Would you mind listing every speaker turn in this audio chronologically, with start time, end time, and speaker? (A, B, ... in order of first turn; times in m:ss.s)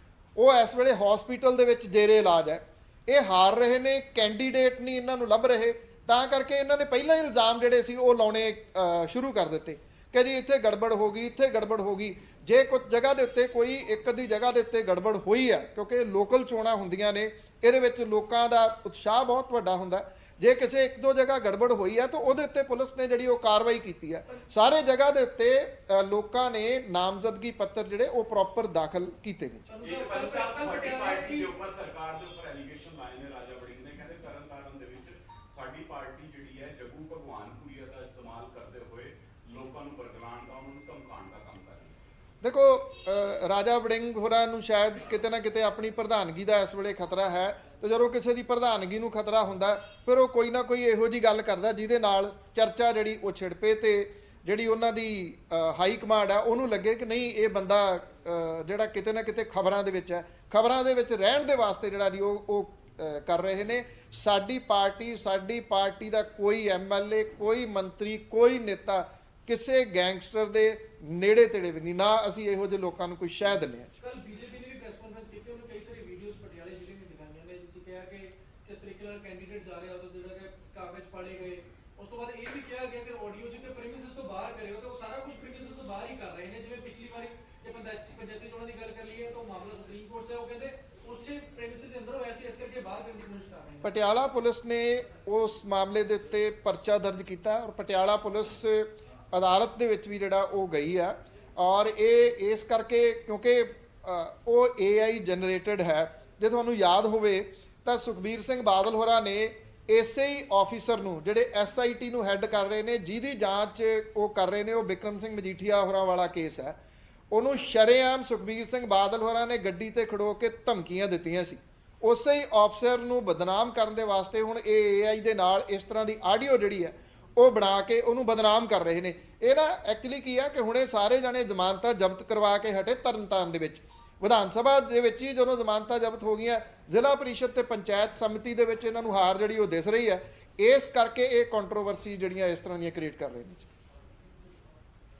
0:00.4-0:29.7 A
0:29.7-0:31.5 B
0:29.8-0:42.0 C
0:42.4-1:14.0 A
1:14.0-1:33.9 B
1:33.8-1:56.7 A
1:57.3-2:23.7 A